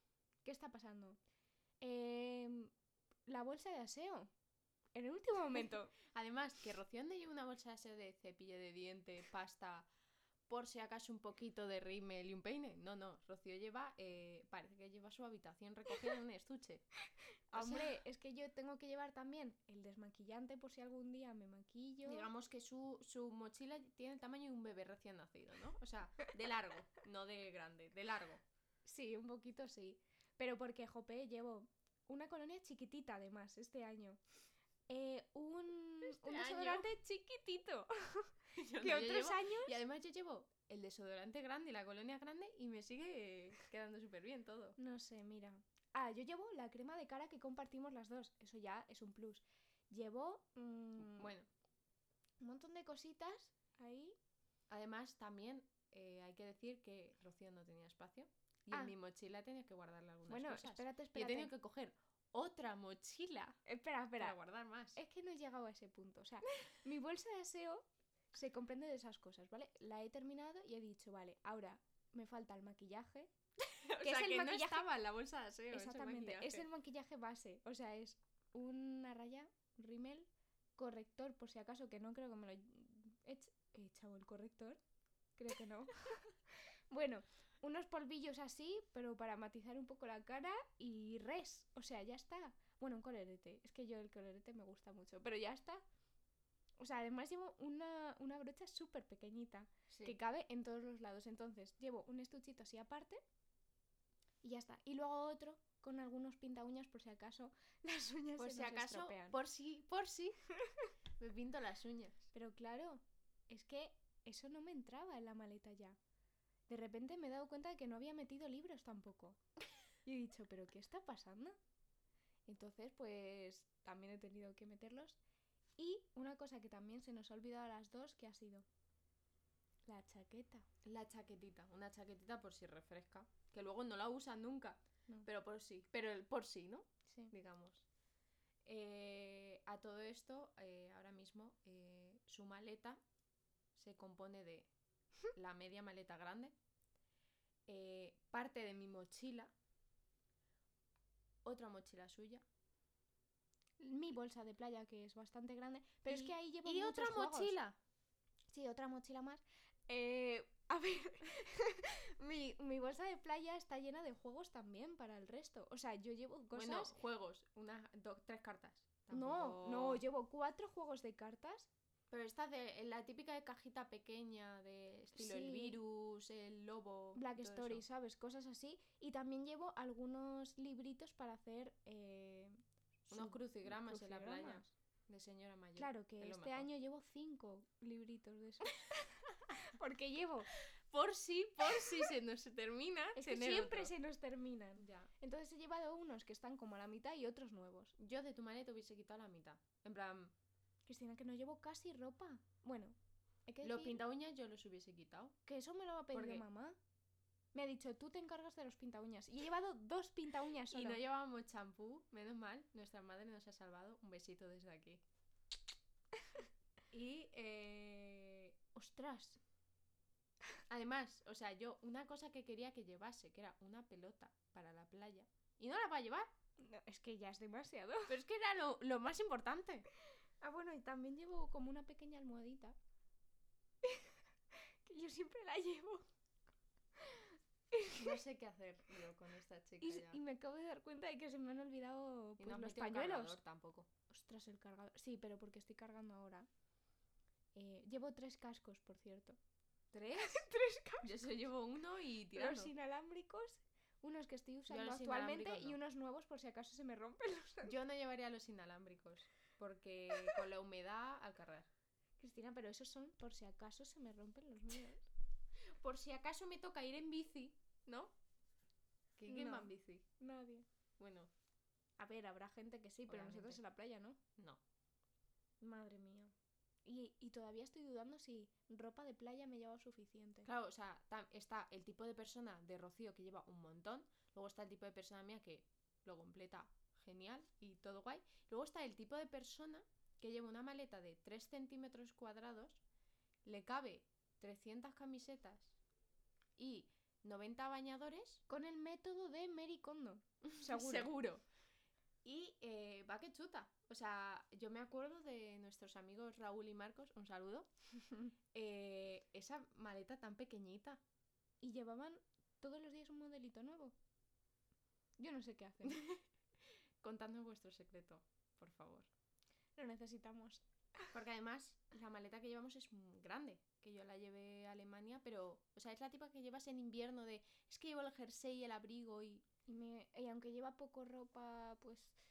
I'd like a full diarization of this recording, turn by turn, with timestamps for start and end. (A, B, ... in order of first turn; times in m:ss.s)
0:00.4-0:01.2 A
0:01.8-0:02.7 A
0:03.3-0:04.3 A
0:04.9-0:05.9 A
0:06.0-0:09.9 B
0:10.5-0:16.8 B
0:17.5-0:22.3 A
0:17.5-0:18.0 B
0:22.0-0:28.4 B
0:28.8-0:34.2 A
0:34.9-0:39.7 A
0:36.0-0:36.9 B
0:38.5-0:44.8 B
0:44.8-0:51.3 A
0:51.0-0:51.5 B
0:52.4-0:54.2 A
0:54.7-1:03.6 B
1:00.3-1:01.5 A
1:03.6-1:04.4 A
1:04.2-1:05.0 B
1:04.9-1:13.3 A
1:13.6-1:16.6 B
1:14.0-1:14.9 A
1:15.7-1:24.8 A
1:25.4-1:26.4 A
1:26.9-1:35.8 A
1:36.8-1:43.2 A
1:39.9-1:40.2 B
1:44.4-1:49.4 A
1:48.4-1:50.4 B
1:51.2-1:52.3 B
1:52.3-1:56.0 A
1:56.7-1:59.4 A
2:00.0-2:01.6 A
2:02.5-2:05.2 A
2:05.8-2:08.6 A
2:09.9-2:10.7 A
2:10.8-2:17.8 B
2:17.1-2:17.3 A
2:18.6-2:23.0 B
2:23.7-2:24.7 B
2:25.3-2:26.5 B
2:27.7-2:29.5 B
2:31.4-2:32.4 B
2:33.8-2:37.6 A
2:36.1-2:37.8 B
2:38.5-2:47.0 A
2:46.5-2:50.0 B
2:49.1-2:51.7 A
2:52.1-2:57.8 B
2:55.2-2:55.8 A
2:57.1-3:02.6 A
3:03.1-3:04.7 A
3:03.1-3:06.7 B
3:05.8-3:10.6 A
3:10.6-3:13.9 B
3:13.1-3:17.9 A
3:14.8-3:15.1 B
3:18.0-3:20.3 B
3:20.8-3:23.0 A
3:23.5-3:24.0 A
3:23.6-3:25.4 B
3:25.4-3:26.8 A
3:26.1-3:26.4 B
3:27.5-3:31.0 A
3:30.7-3:35.0 B
3:36.9-3:38.6 B
3:38.7-3:39.4 A
3:40.7-3:46.3 B
3:46.6-3:48.2 A
3:48.1-3:49.9 B
3:50.4-3:52.8 A
3:53.8-3:56.0 A
3:57.0-3:58.1 A
3:57.9-4:00.2 B
3:59.8-4:03.4 A
4:02.4-4:03.9 B
4:04.1-4:06.5 A
4:07.5-4:09.4 A
4:09.9-4:10.4 B
4:10.1-4:11.4 A
4:11.0-4:12.7 B
4:12.3-4:17.7 A
4:14.7-4:15.8 B
4:17.6-4:21.7 B
4:22.2-4:25.1 A
4:25.8-4:28.1 B
4:29.2-4:30.1 B
4:29.2-4:30.6 A
4:31.0-4:31.3 B
4:32.0-4:34.2 A
4:33.1-4:33.6 B
4:34.4-4:34.6 B
4:35.6-4:36.3 A
4:36.8-4:40.5 A
4:40.4-4:52.8 B
4:53.4-4:55.8 B
4:56.6-4:58.4 B
4:58.5-5:01.1 A
5:00.4-5:01.4 B
5:02.2-5:07.7 B
5:08.5-5:11.0 B
5:11.6-5:13.9 A
5:15.2-5:16.1 A
5:15.8-5:16.2 B
5:17.0-5:19.1 B
5:19.8-5:21.1 A
5:21.1-5:29.4 B
5:29.7-5:32.1 A